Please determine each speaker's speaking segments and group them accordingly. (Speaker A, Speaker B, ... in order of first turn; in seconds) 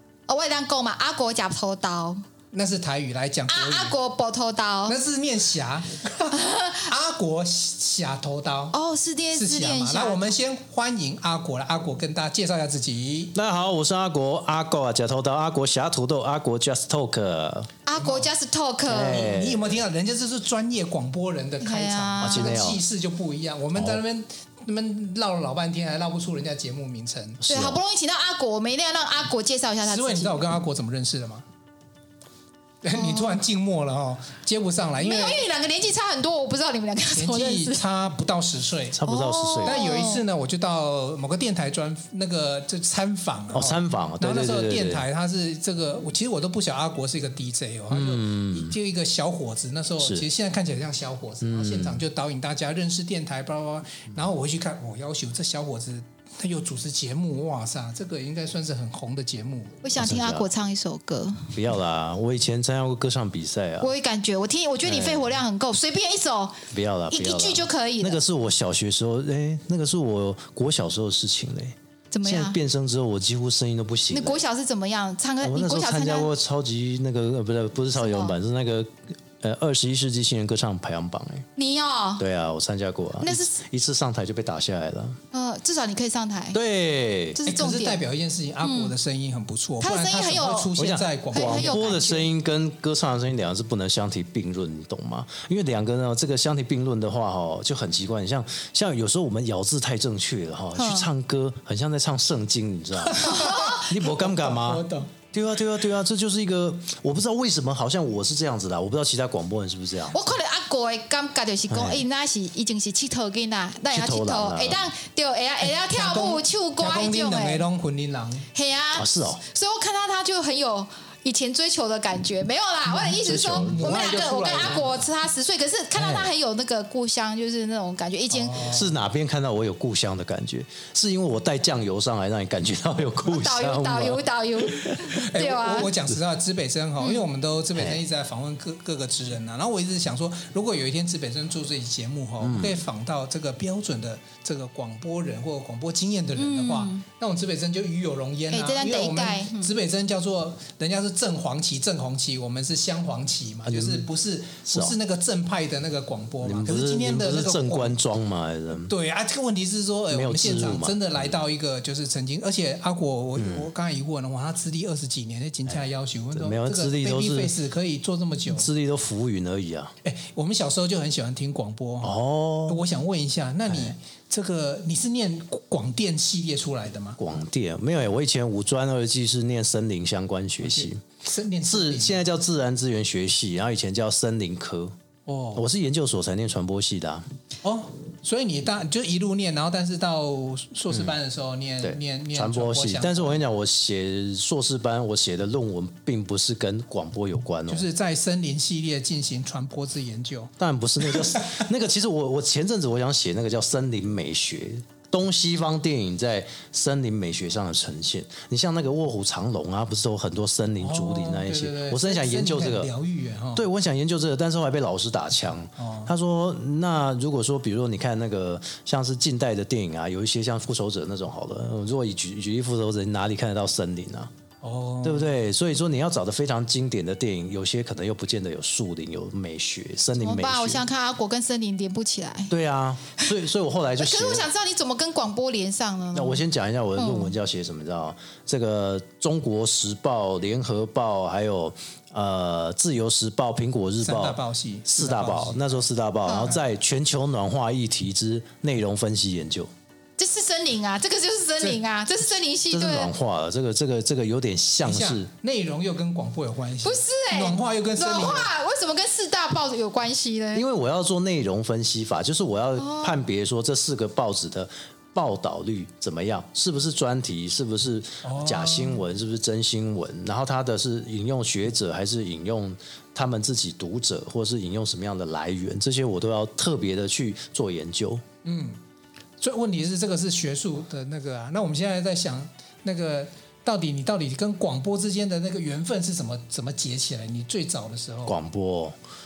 Speaker A: 0.3-2.2, 3.5-5.0, 6.3-6.9, 8.7-10.3, 17.9-19.4, 21.6-22.7, 27.4-30.4, 32.9-33.4, 35.0-37.8, 39.1-40.2, 59.8-61.5, 63.8-68.2, 72.1-72.6, 74.1-76.3, 78.0-78.4, 81.5-82.2, 83.2-83.6, 85.3-86.6, 87.3-88.0, 88.6-88.9, 89.8-90.7, 91.3-92.3, 100.7-101.1, 103.2-103.9, 110.1-117.6, 118.5-128.7, 133.2-135.9, 146.4-147.0, 148.5-149.7, 230.2-232.5, 234.0-236.4, 237.0-237.3, 246.2-246.5, 250.2-253.1, 256.8-260.6, 262.8-263.2
Speaker B: 2.5-3.9, 4.8-8.7, 9.3-13.3, 18.0-18.3, 19.2-27.4, 29.8-31.4, 32.8-35.4, 37.1-39.0, 39.6-59.8, 87.5-91.8, 103.1-105.1, 115.6-118.5, 123.2-125.1, 128.3-128.9, 135.1-158.0, 158.8-168.7, 170.0-172.1, 172.7-177.2, 180.6-182.3, 185.2-185.6, 187.6-193.4, 197.7-200.5, 201.0-201.5, 210.8-213.7, 215.8-216.1, 224.6-225.3, 244.0-245.8, 254.8-258.5, 268.2-269.0, 278.4-278.8, 279.4-288.4
Speaker C: 13.3-17.7, 18.9-19.8, 22.2-22.8, 23.7-24.0, 27.4-27.8, 38.9-39.9, 43.5-45.0, 47.9-48.7, 50.0-50.2, 51.4-52.0, 60.0-60.5, 61.5-63.9, 64.8-65.3, 66.7-74.4, 75.4-81.5, 82.2-85.2, 86.5-87.4, 90.8-110.2, 111.7-112.0, 113.9-114.9, 118.9-119.4, 123.2-124.1, 125.9-126.3, 128.6-135.1, 137.7-138.0, 142.4-142.8, 153.6-154.1, 154.7-154.9, 156.4-158.9, 160.1-161.3, 163.3-163.7, 166.3-167.5, 168.5-169.9, 172.0-172.8, 173.7-173.9, 177.2-181.0, 181.7-184.9, 185.5-187.3, 191.8-197.8, 200.6-212.9, 213.5-224.3, 225.0-230.8, 232.5-234.5, 236.1-249.7, 252.7-255.3, 260.5-278.2, 288.3-289.0